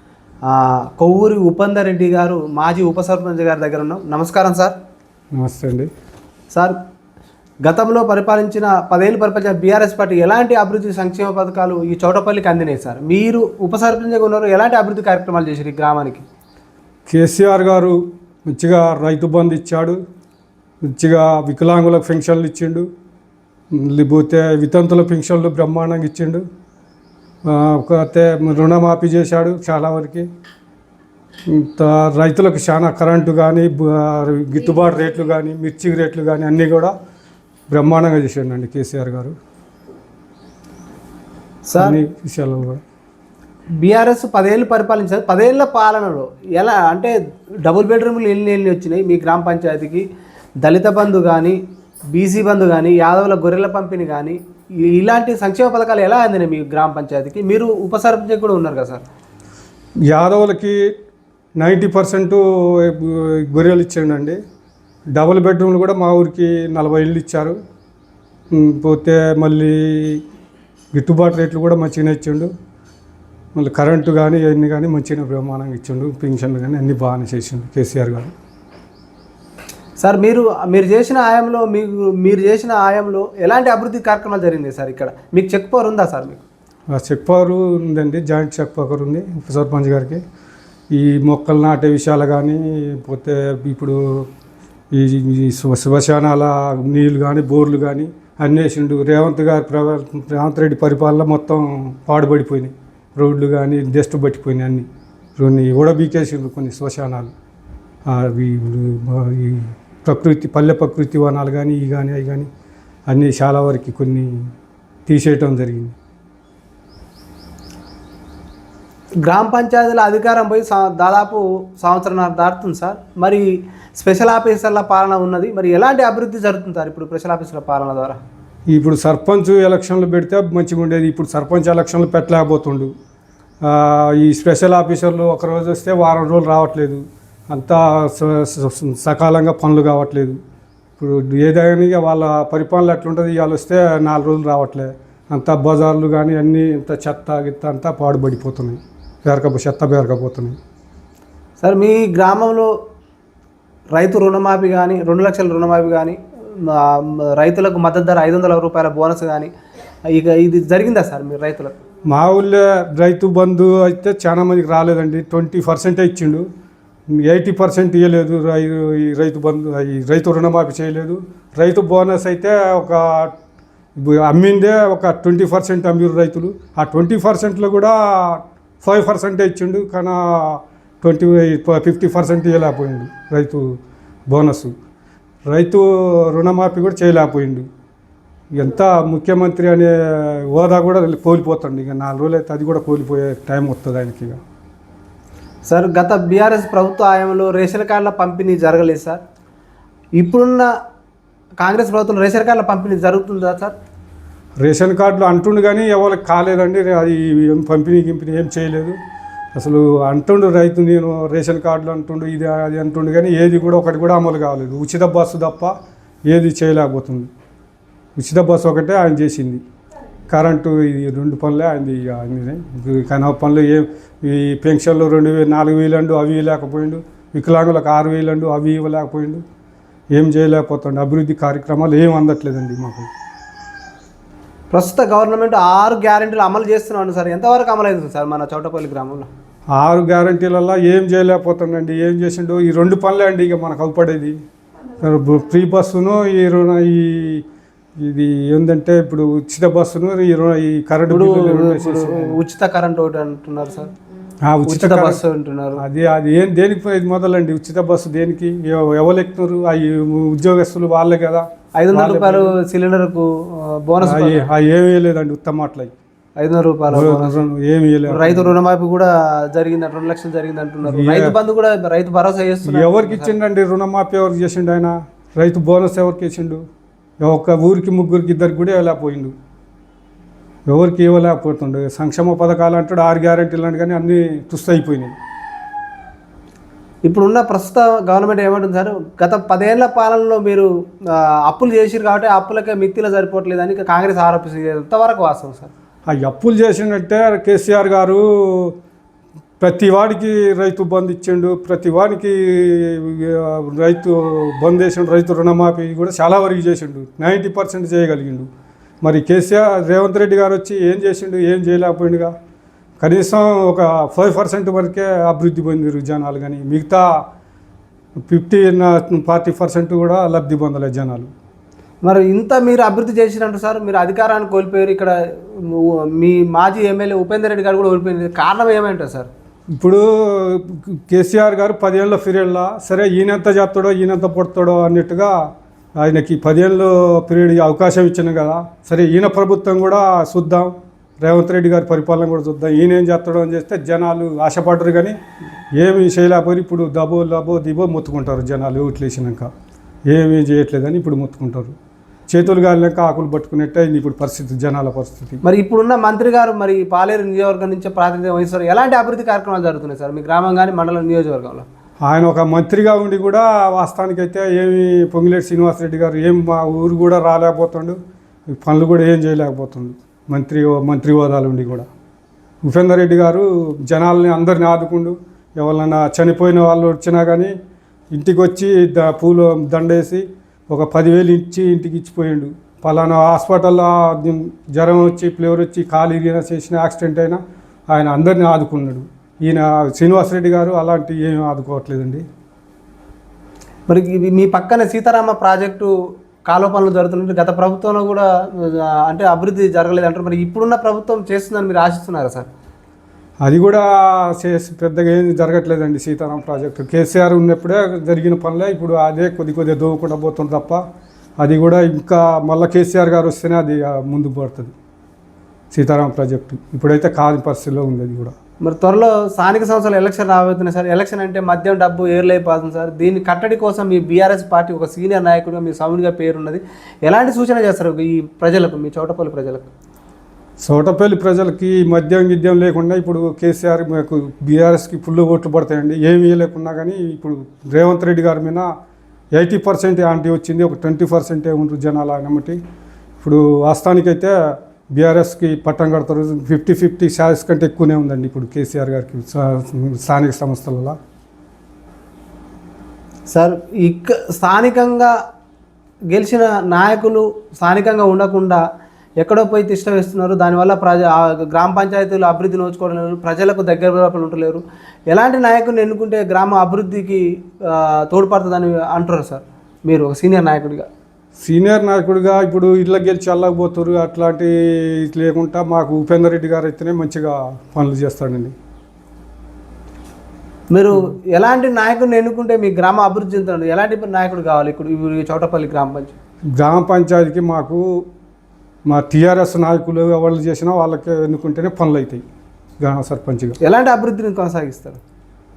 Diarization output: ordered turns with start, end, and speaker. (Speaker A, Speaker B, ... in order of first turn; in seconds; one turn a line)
Speaker A: 0.5-4.7
Speaker B: 5.3-5.9
Speaker A: 7.7-16.2
Speaker B: 17.1-20.0
Speaker B: 20.8-22.9
Speaker B: 23.7-26.4
Speaker B: 27.4-30.3
Speaker B: 31.5-36.9
Speaker B: 37.7-39.3
Speaker A: 41.6-42.0
Speaker B: 41.8-42.8
Speaker A: 43.8-47.1
Speaker A: 47.6-50.0
Speaker A: 50.6-51.6
Speaker A: 52.1-59.0
Speaker B: 60.1-60.8
Speaker B: 61.6-64.4
Speaker B: 65.1-67.6
Speaker B: 68.5-70.2
Speaker B: 70.9-72.5
Speaker B: 73.5-78.3
Speaker A: 80.0-86.4
Speaker B: 86.9-90.2
Speaker B: 90.9-94.3
Speaker B: 94.9-107.3
Speaker B: 108.0-112.5
Speaker B: 113.1-114.3
Speaker B: 115.1-115.9
Speaker A: 119.2-128.2
Speaker B: 128.7-132.9
Speaker B: 133.6-140.4
Speaker B: 141.0-150.6
Speaker A: 151.6-152.7
Speaker A: 153.9-159.5
Speaker A: 160.1-161.7
Speaker B: 162.1-166.4
Speaker B: 167.2-173.3
Speaker B: 173.9-183.7
Speaker B: 184.3-184.7
Speaker B: 185.5-187.7
Speaker B: 188.5-194.4
Speaker A: 195.7-199.2
Speaker A: 200.2-200.7
Speaker A: 201.6-203.7
Speaker B: 204.6-209.0
Speaker B: 209.5-215.7
Speaker B: 216.3-217.3
Speaker B: 218.2-219.6
Speaker B: 220.3-229.4
Speaker B: 230.1-233.1
Speaker A: 234.7-239.3
Speaker B: 239.8-244.3
Speaker B: 245.0-247.4
Speaker B: 248.0-252.4
Speaker A: 251.1-253.9
Speaker B: 254.4-255.2
Speaker A: 254.7-255.8
Speaker B: 255.8-262.5
Speaker A: 261.8-264.5
Speaker B: 264.0-265.9
Speaker A: 266.4-267.4
Speaker B: 266.9-268.5
Speaker A: 268.1-273.3
Speaker B: 270.8-271.4
Speaker B: 272.6-276.6
Speaker B: 277.2-279.3
Speaker B: 280.7-285.1
Speaker A: 287.0-295.7
Speaker B: 296.1-298.7
Speaker B: 299.6-308.5
Speaker B: 309.0-312.3
Speaker B: 313.0-317.0
Speaker B: 318.3-321.3
Speaker A: 322.0-329.3
Speaker B: 329.7-335.3
Speaker B: 336.0-345.2
Speaker B: 345.8-349.5
Speaker B: 350.1-351.7
Speaker B: 352.3-355.4
Speaker A: 355.4-361.6
Speaker B: 362.0-368.0
Speaker B: 368.5-371.9
Speaker B: 372.6-377.5
Speaker B: 378.1-387.4
Speaker B: 387.9-392.2
Speaker A: 393.9-395.9
Speaker A: 396.5-402.5
Speaker B: 403.4-410.8
Speaker B: 411.4-414.7
Speaker B: 415.7-418.3
Speaker A: 418.6-429.7
Speaker B: 430.6-438.6
Speaker B: 439.3-442.6
Speaker B: 443.2-444.3
Speaker B: 444.9-451.0
Speaker A: 453.3-455.1
Speaker A: 456.1-458.6
Speaker A: 459.2-470.9
Speaker B: 471.4-478.5
Speaker A: 480.7-486.1
Speaker B: 486.6-487.9
Speaker B: 488.9-492.2
Speaker B: 492.8-493.6
Speaker A: 493.6-495.0